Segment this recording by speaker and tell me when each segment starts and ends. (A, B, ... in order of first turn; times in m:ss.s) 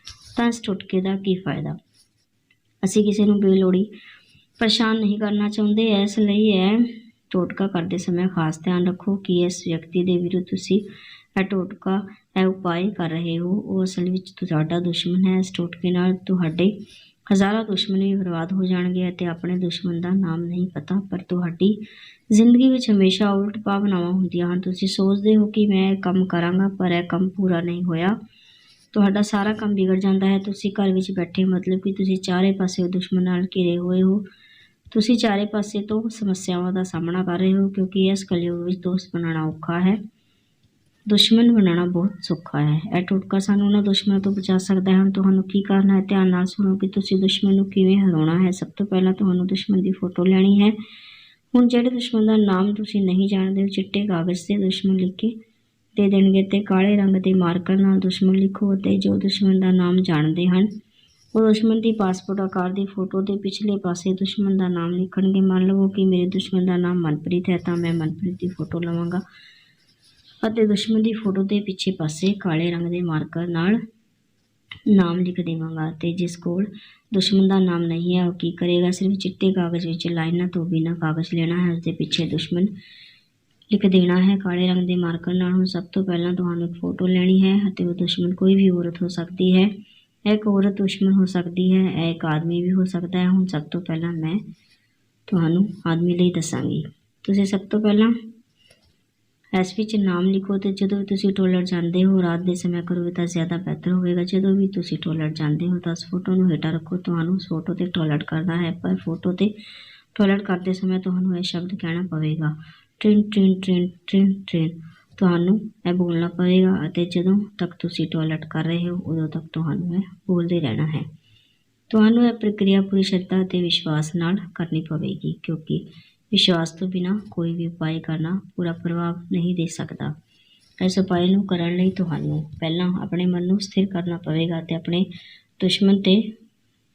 0:00.4-0:01.8 A
0:02.8-0:03.9 A
0:04.6-0:10.8 A
0:11.4-0:16.8 A
0:17.3-0:28.2 A
0:28.9-0:34.2 A
0:34.9-0:40.0 A
0:41.1-0:50.8 A
0:51.5-0:55.4 A
0:55.9-1:00.7 A
1:01.3-1:09.2 A
1:10.4-1:13.8 A
1:14.9-1:22.7 A
1:23.7-1:29.7 A
1:30.2-1:34.4 A
1:35.3-1:38.1 A
1:39.5-1:49.5 A
1:50.1-2:01.1 A
2:01.9-2:10.1 A
2:10.8-2:15.0 A
2:15.6-2:16.3 A